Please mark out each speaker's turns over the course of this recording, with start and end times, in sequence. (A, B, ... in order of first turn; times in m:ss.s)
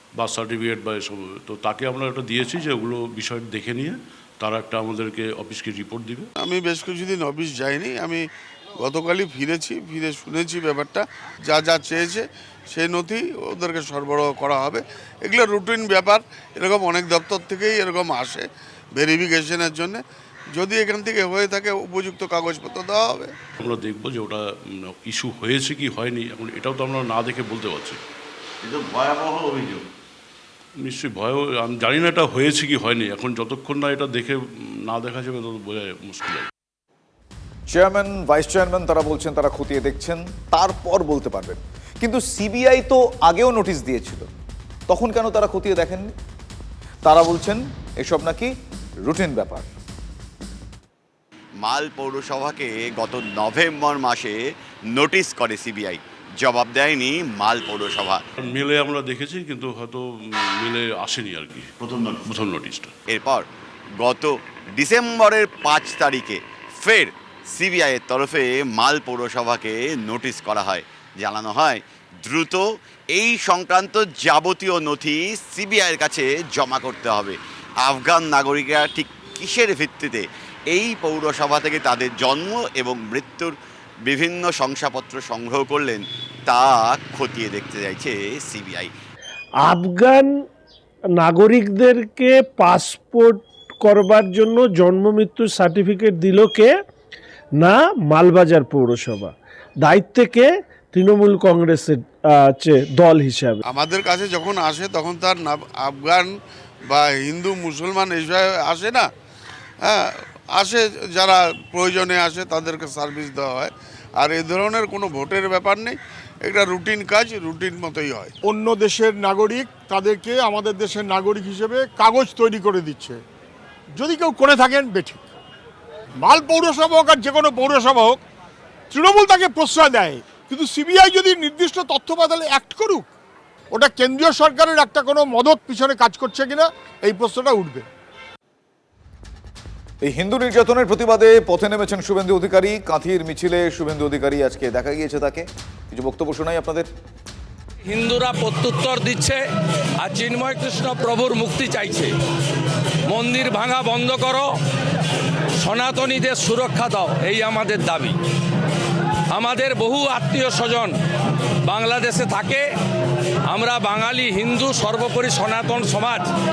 0:00.2-0:06.3 A
0:06.4-0:20.0 B
0:20.6-0:23.3 B
0:23.6-0:28.0 A
0:28.6-0:29.8 C
0:30.8-0:36.5 A
0:37.7-0:44.3 D
0:44.9-0:46.1 D
0:47.0-0:48.5 D
0:49.1-0:49.7 D
0:51.6-0:58.2 C
0:58.4-1:02.9 A
1:03.1-1:03.5 C
1:04.0-1:23.5 C
1:24.1-1:28.9 C
1:29.6-1:30.3 E
1:31.2-1:36.7 E
1:37.6-1:43.6 E
1:43.7-1:46.4 B
1:46.9-1:49.1 B
1:49.8-1:58.3 B
1:58.4-2:03.2 F
2:03.9-2:05.3 F
2:06.2-2:08.2 F
2:08.9-2:13.1 F
2:13.7-2:17.9 F
2:20.0-2:26.9 D
2:27.9-2:29.4 G
2:30.0-2:32.1 G
2:33.1-2:34.5 G
2:35.6-2:38.2 G
2:39.3-2:40.9 G
2:41.7-2:42.6 G
2:43.5-2:46.3 G